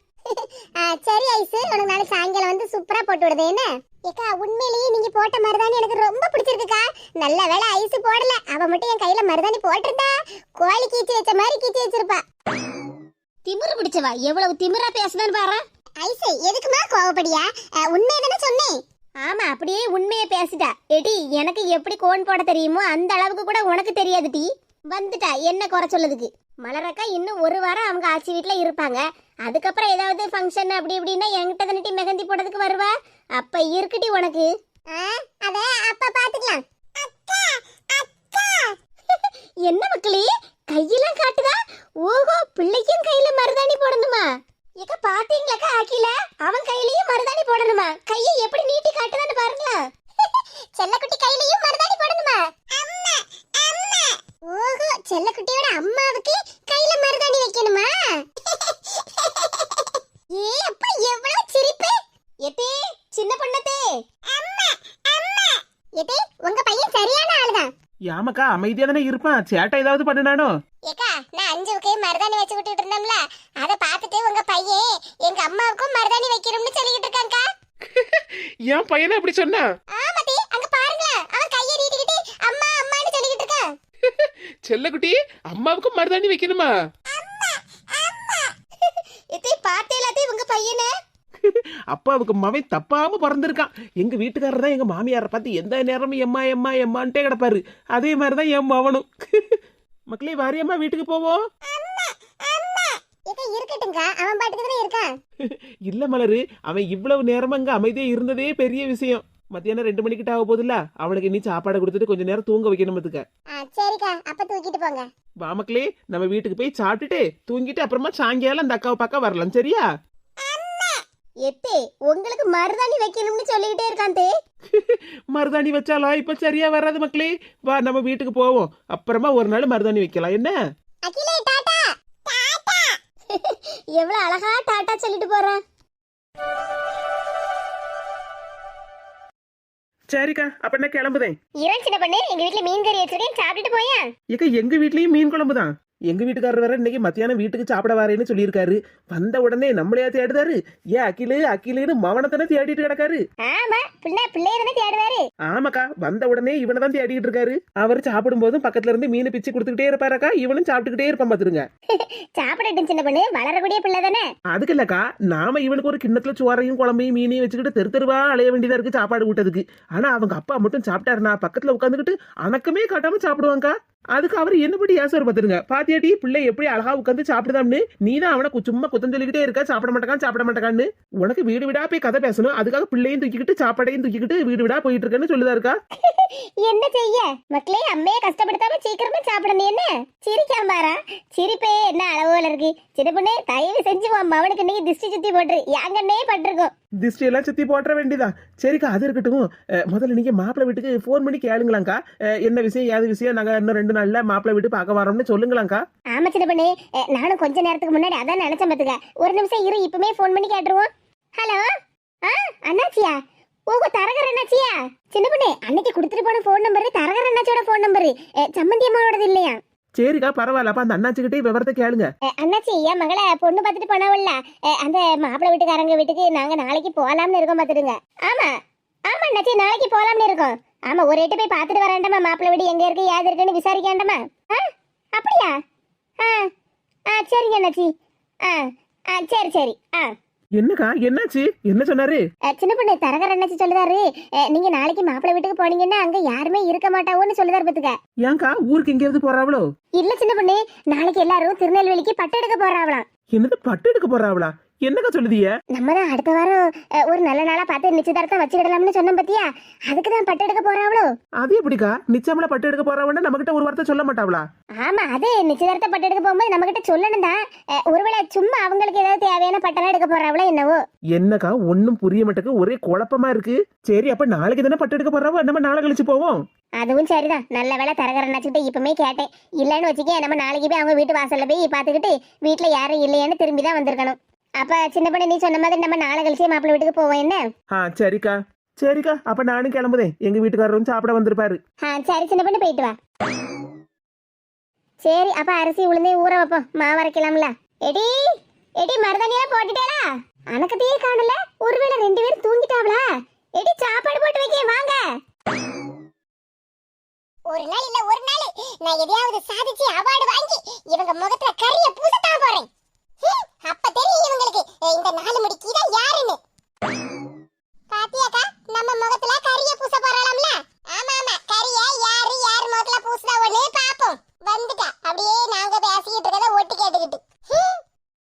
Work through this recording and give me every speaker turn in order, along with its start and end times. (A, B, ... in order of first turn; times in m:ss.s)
0:00.3-0:12.2 A
0:13.4-0:15.6 B
0:16.0-0:18.8 A
0:19.2-0:34.5 B
0:34.9-0:38.8 A
0:39.1-0:44.3 B
0:44.8-0:49.9 B
0:50.8-1:02.0 A
1:02.4-1:03.8 B
1:04.3-1:07.7 A
1:08.1-1:10.5 C
1:10.9-1:17.4 A
1:17.9-1:19.7 C
1:20.0-1:23.7 A
1:24.1-1:26.7 C
1:27.1-1:28.5 A
1:28.8-1:30.9 B
1:31.4-1:39.6 C
1:40.1-1:41.4 C
1:41.7-1:45.1 A
1:45.4-1:53.2 C
1:53.6-1:55.1 A
1:55.4-1:59.8 C
2:00.4-2:01.0 A
2:01.4-2:04.3 B
2:04.7-2:10.5 C
2:11.1-2:13.0 A
2:13.3-2:15.6 B
2:20.1-2:21.4 C
2:21.6-2:24.1 B
2:24.3-2:33.2 C
2:33.4-2:35.2 B
2:35.5-2:41.7 C
2:41.9-2:44.3 B
2:44.5-3:05.8 C
3:06.0-3:16.7 B
3:17.0-3:25.8 C
3:26.1-3:31.6 B
3:32.2-3:33.2 B
3:33.7-3:39.6 B
3:40.0-3:42.1 C
3:42.3-3:55.6 B
3:56.2-3:56.5 B
3:57.1-3:57.9 B
3:58.4-4:00.2 B
4:00.6-4:02.2 C
4:02.5-4:08.0 B
4:08.2-4:09.7 C
4:10.0-4:13.1 B
4:13.3-4:15.5 C
4:15.8-4:21.1 B
4:21.4-4:24.4 C
4:24.8-4:30.8 B
4:31.2-4:36.4 C
4:36.8-4:47.4 B
4:47.7-4:51.6 C
4:51.8-4:53.0 B
4:55.0-5:05.0 B
5:07.5-5:12.7 A
5:13.2-5:16.4 A
5:17.9-5:27.8 A